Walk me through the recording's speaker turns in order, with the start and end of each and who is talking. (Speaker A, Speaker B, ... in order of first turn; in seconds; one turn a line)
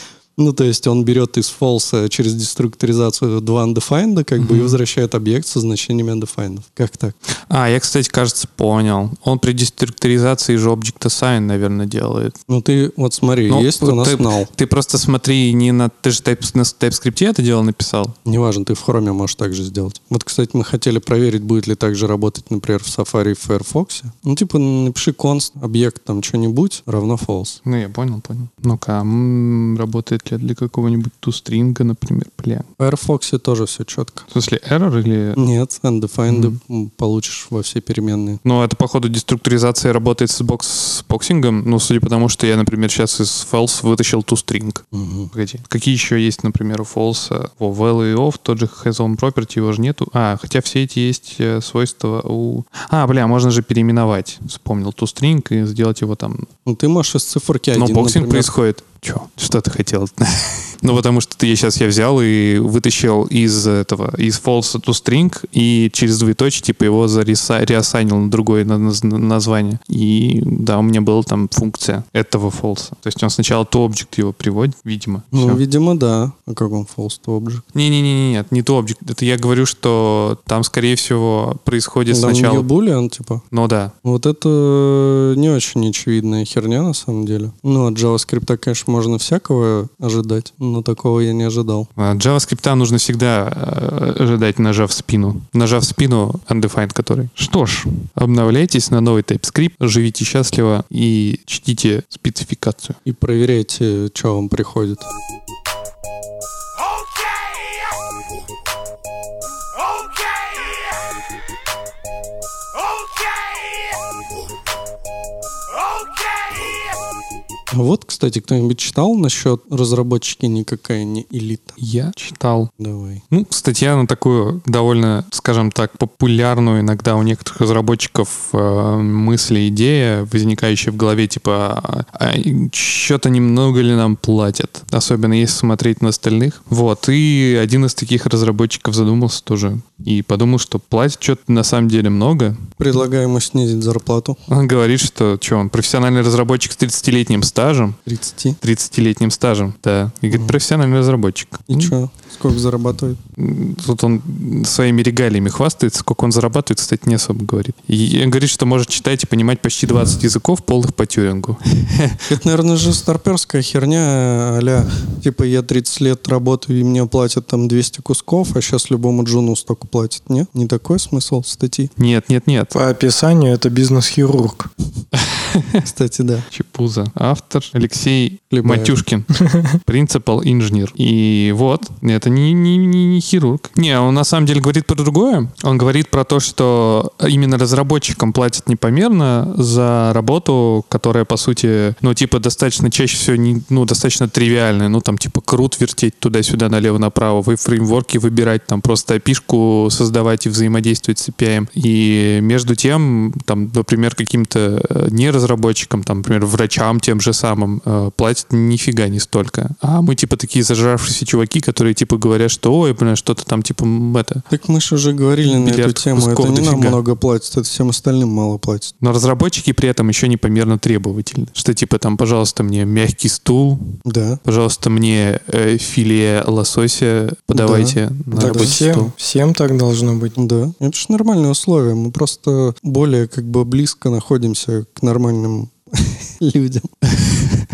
Speaker A: 0.3-7.2
Speaker B: 4.4-4.8
Speaker B: 7.5-12.3
Speaker A: 12.5-14.5
Speaker B: 13.5-18.1
Speaker A: 18.2-27.6
Speaker B: 27.6-32.7
Speaker A: 32.8-34.3
Speaker B: 34.3-35.4
Speaker A: 35.4-38.4
Speaker B: 36.3-36.5
Speaker B: 38.4-56.5
Speaker A: 44.9-45.3
Speaker A: 56.6-58.5
Speaker B: 57.7-75.6
Speaker A: 75.3-77.6
Speaker B: 77.7-82.7
Speaker A: 82.1-83.4
Speaker B: 83.5-83.9
Speaker A: 84.0-91.9
Speaker B: 92.0-103.0
Speaker A: 103.0-105.1
Speaker A: 117.7-121.8
Speaker B: 121.8-122.7
Speaker A: 122.8-123.2
Speaker B: 123.3-142.6
Speaker A: 142.8-144.4
Speaker B: 144.5-148.0
Speaker A: 148.1-148.6
Speaker B: 148.6-151.9
Speaker A: 150.3-150.6
Speaker A: 151.7-153.2
Speaker B: 153.4-162.2
Speaker A: 162.3-171.9
Speaker B: 172.0-172.7
Speaker C: 172.7-174.7
Speaker B: 175.1-175.8
Speaker A: 175.8-176.4
Speaker B: 176.5-214.4
Speaker A: 178.5-178.9
Speaker C: 179.4-179.8
Speaker A: 214.5-218.9
Speaker B: 215.4-217.0
Speaker B: 219.0-229.1
Speaker A: 224.1-224.4
Speaker A: 227.5-228.8
Speaker C: 228.3-230.3
Speaker A: 230.3-237.0